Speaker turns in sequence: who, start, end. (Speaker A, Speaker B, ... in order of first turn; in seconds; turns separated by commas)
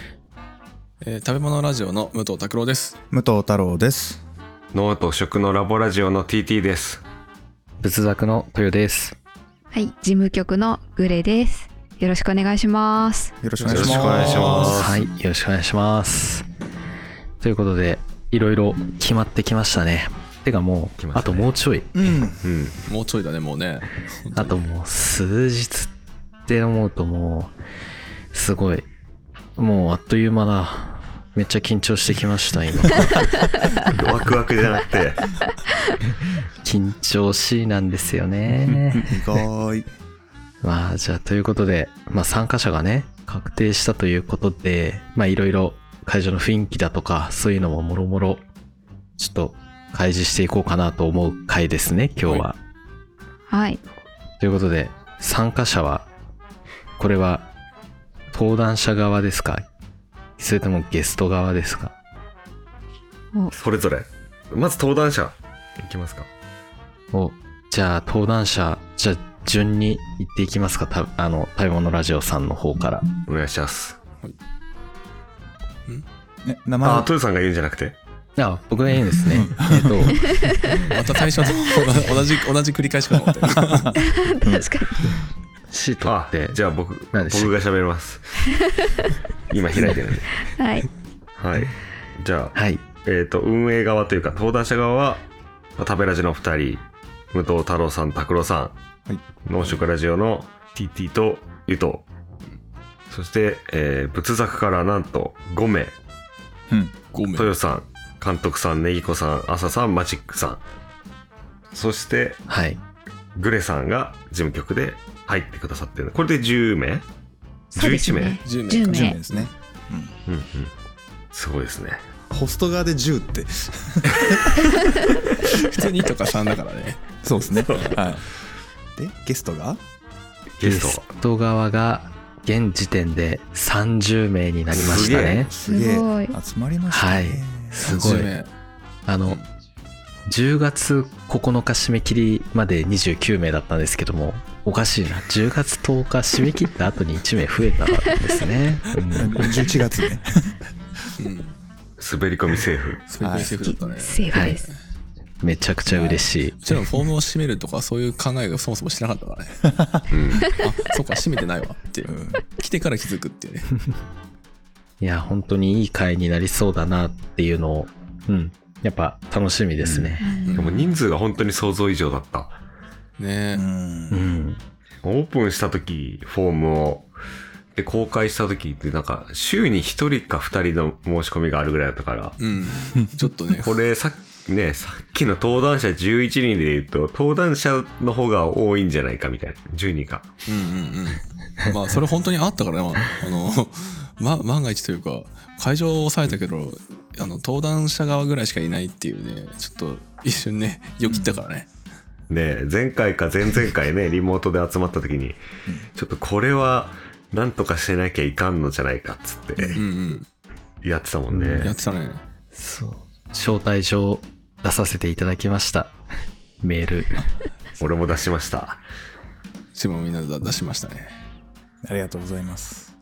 Speaker A: 1.0-2.9, Speaker B: 3.1-4.2, Speaker C: 4.7-7.0, Speaker D: 7.8-9.2, Speaker E: 9.7-13.3, Speaker B: 13.4-14.8, Speaker A: 13.6-14.9, Speaker C: 13.7-15.0, Speaker D: 14.6-16.4, Speaker D: 17.4-22.1, Speaker C: 21.0-21.5, Speaker B: 21.9-22.4, Speaker C: 22.4-22.8, Speaker A: 22.9-24.6, Speaker D: 24.3-25.9, Speaker D: 26.4-27.6, Speaker D: 28.3-28.9, Speaker D: 29.6-33.3, Speaker C: 33.9-35.3, Speaker D: 36.6-39.2, Speaker B: 39.0-39.9, Speaker D: 40.6-48.4, Speaker D: 49.2-52.6, Speaker A: 52.2-52.5, Speaker E: 53.5-53.8, Speaker D: 54.4-56.1, Speaker D: 57.0-57.5, Speaker D: 58.3-59.7, Speaker D: 60.4-62.0, Speaker C: 63.5-66.3, Speaker D: 67.1-73.1, Speaker C: 73.3-74.0, Speaker B: 76.5-77.1, Speaker C: 76.8-78.0, Speaker D: 78.4-80.3, Speaker B: 79.0-80.4, Speaker A: 80.9-84.0, Speaker E: 84.0-85.1, Speaker B: 84.5-85.2, Speaker D: 85.7-86.6, Speaker C: 86.0-88.5, Speaker D: 87.1-87.5, Speaker E: 88.5-89.1, Speaker C: 89.5-90.4, Speaker E: 90.4-90.9, Speaker C: 91.4-95.2, Speaker D: 92.5-92.8, Speaker C: 95.8-98.8, Speaker C: 99.4-102.0, Speaker C: 103.1-106.0, Speaker B: 106.7-107.0, Speaker A: 107.1-107.6, Speaker C: 107.3-110.6, Speaker C: 111.7-112.4, Speaker D: 112.5-112.8, Speaker C: 113.4-117.1, Speaker C: 117.7-118.4, Speaker E: 117.8-119.2, Speaker A: 118.4-119.5, Speaker B: 118.9-120.2, Speaker C: 120.3-120.7, Speaker C: 121.3-122.1, Speaker B: 122.3-124.8, Speaker A: 125.7-127.0, Speaker B: 127.2-128.2, Speaker A: 127.7-128.1, Speaker B: 129.0-129.8, Speaker C: 130.6-131.1, Speaker D: 130.6-135.5, Speaker C: 134.7-135.5, Speaker B: 135.2-138.3, Speaker E: 135.7-136.3, Speaker D: 136.9-138.3, Speaker A: 137.8-138.5, Speaker D: 139.1-139.4, Speaker D: 140.3-149.6, Speaker B: 149.2-150.6, Speaker A: 151.2-151.5, Speaker C: 152.0-153.1, Speaker A: 153.1-154.8, Speaker B: 153.2-153.6, Speaker E: 153.6-154.7, Speaker D: 154.3-154.6, Speaker D: 155.4-156.8, Speaker A: 155.9-159.7, Speaker C: 160.1-160.5, Speaker A: 160.5-163.8, Speaker B: 162.1-162.4, Speaker D: 165.0-170.3, Speaker C: 169.8-172.6, Speaker E: 170.2-170.8, Speaker A: 170.5-170.8, Speaker A: 173.2-173.7, Speaker B: 173.5-174.3, Speaker D: 174.1-174.6, Speaker C: 175.0-177.1, Speaker C: 177.8-182.3, Speaker A: 182.4-183.8, Speaker C: 183.6-190.3, Speaker A: 190.5-201.7, Speaker B: 201.1-201.3, Speaker C: 202.3-205.4, Speaker C: 205.9-209.8, Speaker A: 209.8-210.2, Speaker C: 210.8-211.7, Speaker D: 211.3-211.7, Speaker A: 211.6-212.2, Speaker D: 212.5-215.9, Speaker D: 216.6-217.2, Speaker C: 217.8-218.8, Speaker A: 219.8-221.1, Speaker B: 221.8-222.9